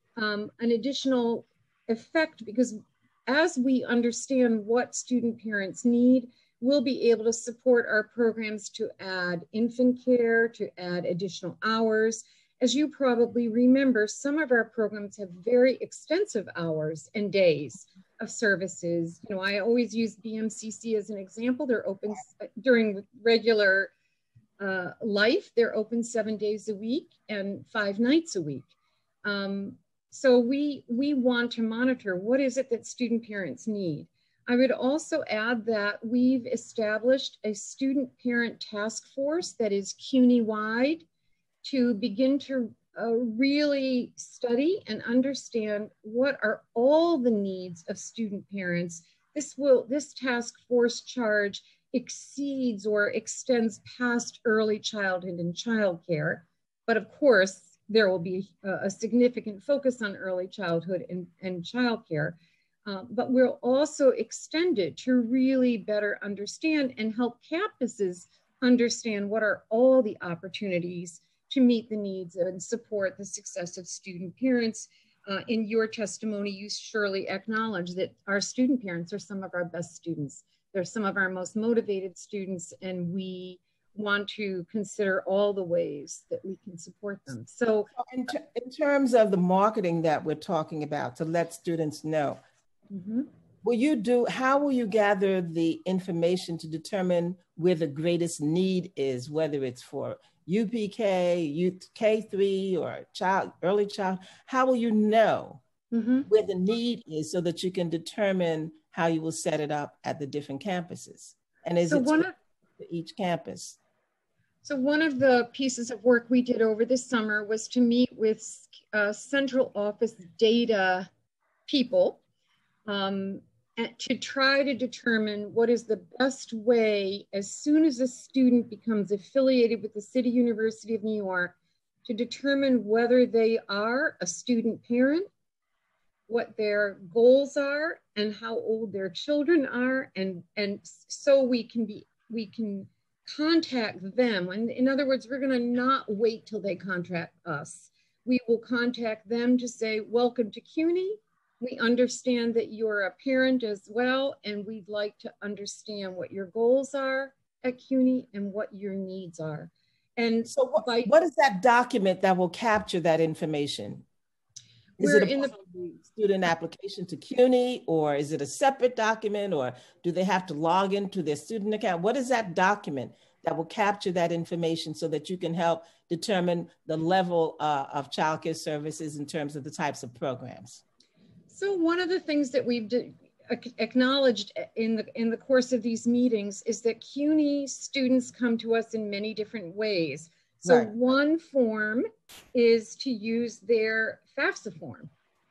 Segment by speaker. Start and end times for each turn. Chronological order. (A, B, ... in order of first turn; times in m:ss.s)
0:00.2-0:23.9 A
0:24.6-0:28.7 A
0:29.2-0:41.0 A
0:41.6-1:27.9 A
1:27.9-1:32.4 B
1:32.9-1:33.3 A
1:33.6-1:45.6 B
1:45.9-1:46.3 A
1:46.3-1:52.3 B
1:51.9-1:52.3 A
1:52.8-1:53.8 B
1:54.6-2:01.1 A
2:01.7-2:02.2 A
2:02.8-2:11.5 A
2:12.0-2:15.3 A
2:16.3-2:41.1 A
2:40.5-2:44.0 B
2:45.0-3:00.8 B
2:45.0-2:45.5 A
3:01.5-3:15.1 A
3:10.6-3:10.9 B